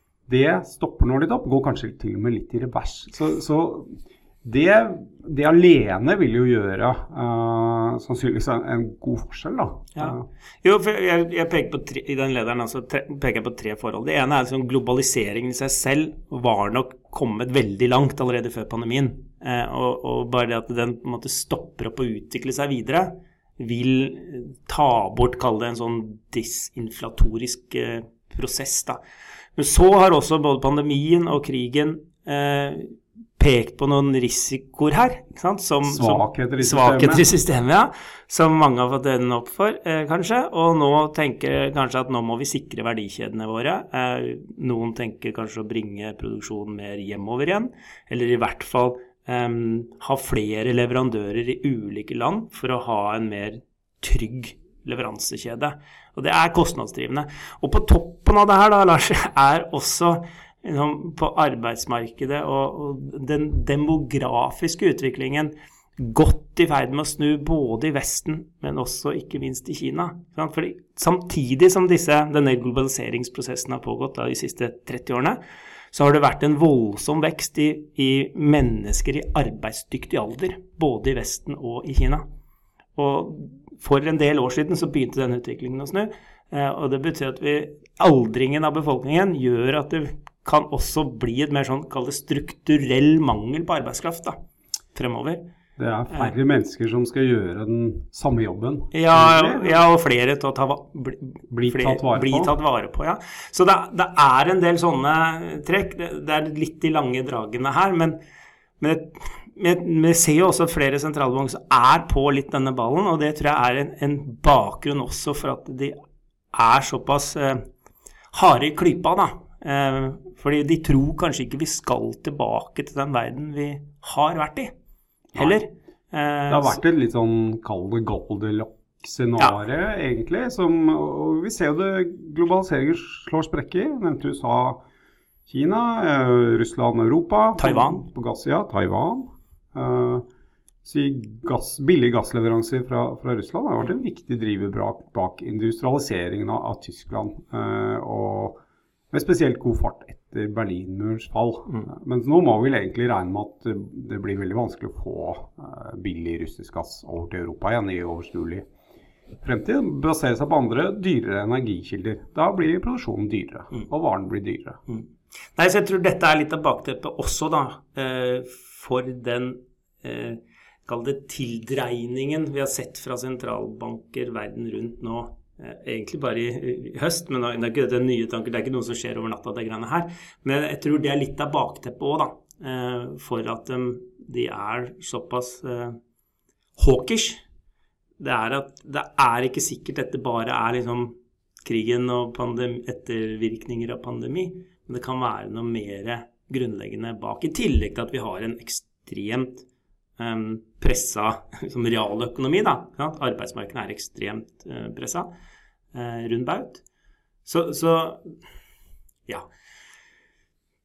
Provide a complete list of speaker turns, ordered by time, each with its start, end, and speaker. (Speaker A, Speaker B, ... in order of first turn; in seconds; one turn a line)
Speaker A: 0.3-10.2
Speaker B: 9.9-29.0
Speaker B: 29.6-75.4
Speaker A: 35.9-37.3
Speaker B: 75.9-82.2
Speaker B: 83.0-94.4
Speaker B: 94.9-95.4
Speaker A: 95.8-99.8
Speaker B: 98.9-108.2
Speaker A: 101.5-102.5
Speaker B: 108.8-116.0
Speaker B: 116.5-117.7
Speaker B: 118.3-124.7
Speaker B: 125.4-126.8
Speaker A: 126.5-134.8
Speaker A: 135.5-140.2
Speaker B: 137.6-138.0
Speaker A: 140.8-148.6
Speaker A: 149.1-158.6
Speaker A: 159.4-164.8
Speaker B: 164.9-186.0
Speaker B: 186.8-187.4
Speaker B: 188.2-199.7
Speaker B: 200.2-205.3
Speaker B: 205.9-206.8
Speaker B: 207.4-208.2